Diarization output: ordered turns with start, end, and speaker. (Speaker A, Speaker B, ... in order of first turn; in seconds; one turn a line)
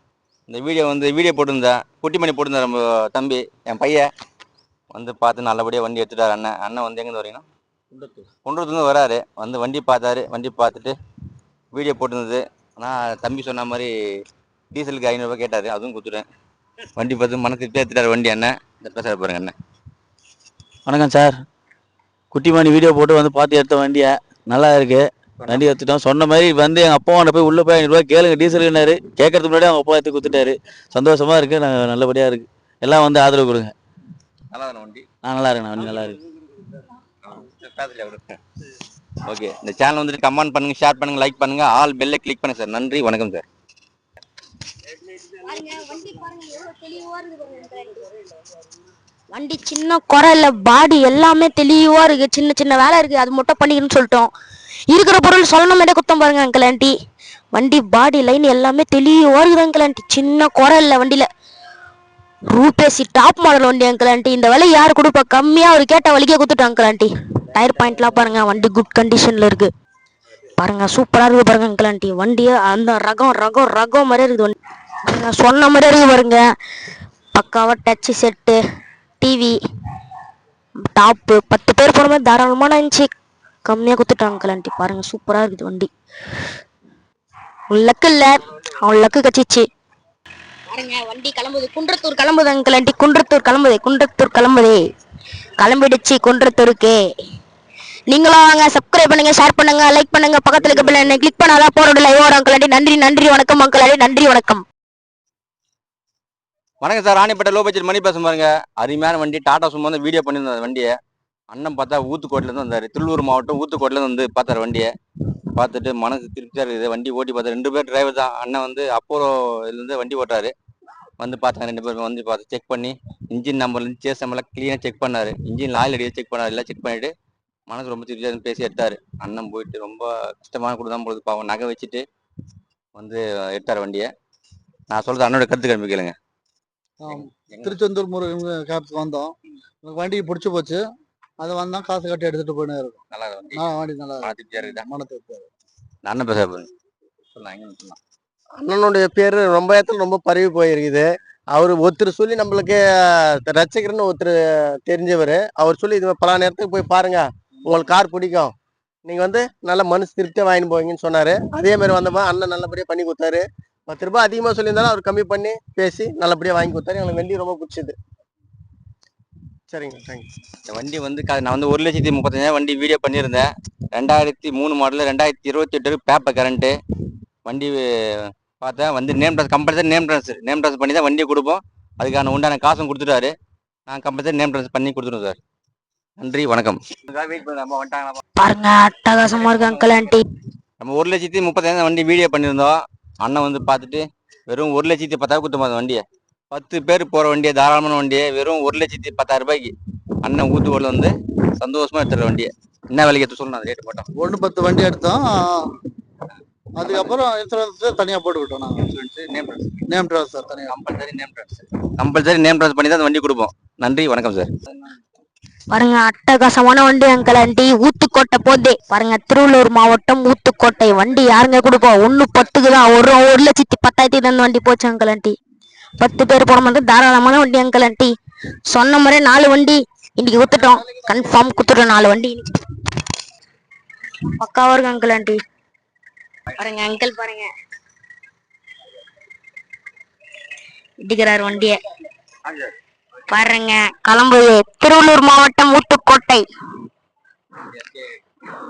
Speaker A: 0.5-4.1
Speaker A: 4.9-7.4
Speaker A: 8.4-10.9
Speaker A: 11.7-13.9
Speaker A: 14.7-16.3
Speaker A: 17.0-19.6
Speaker B: 20.9-21.4
Speaker B: 22.3-33.7
Speaker A: 25.4-25.7
Speaker A: 34.5-35.1
Speaker B: 35.2-36.2
Speaker A: 37.2-38.4
Speaker A: 39.2-43.5
Speaker C: 45.2-48.0
Speaker C: 49.3-54.3
Speaker C: 54.9-56.9
Speaker C: 57.5-61.3
Speaker C: 62.5-69.7
Speaker C: 70.6-74.5
Speaker C: 75.1-76.4
Speaker C: 77.3-78.6
Speaker C: 79.2-79.6
Speaker C: 80.9-83.1
Speaker C: 83.7-85.9
Speaker C: 87.7-89.7
Speaker C: 90.7-94.8
Speaker C: 95.6-97.0
Speaker C: 98.1-104.6
Speaker A: 106.8-110.9
Speaker A: 111.5-114.9
Speaker A: 115.5-120.5
Speaker A: 121.2-127.1
Speaker A: 127.7-132.1
Speaker A: 132.9-134.1
Speaker A: 134.9-136.2
Speaker D: 137.0-139.3
Speaker A: 137.1-137.8
Speaker D: 139.8-140.8
Speaker D: 141.4-143.0
Speaker A: 143.1-143.7
Speaker D: 143.5-145.5
Speaker A: 144.2-144.9
Speaker A: 146.1-146.7
Speaker A: 147.3-148.0
Speaker E: 148.6-158.5
Speaker E: 159.1-167.9
Speaker E: 169.7-170.3
Speaker A: 170.7-176.8
Speaker A: 177.5-177.8
Speaker A: 178.6-183.3
Speaker A: 183.9-185.4
Speaker A: 186.2-188.2
Speaker C: 188.4-190.2
Speaker A: 189.3-190.1
Speaker A: 190.8-204.1
Speaker D: 204.2-205.7
Speaker D: 206.8-208.9
Speaker A: 206.8-207.2
Speaker A: 208.8-209.9
Speaker D: 209.9-210.8
Speaker A: 210.7-214.5
Speaker C: 215.7-225.3
Speaker C: 226.0-228.1
Speaker C: 228.7-232.6
Speaker C: 234.4-235.4
Speaker C: 236.6-237.5
Speaker C: 241.0-241.8
Speaker C: 243.3-246.4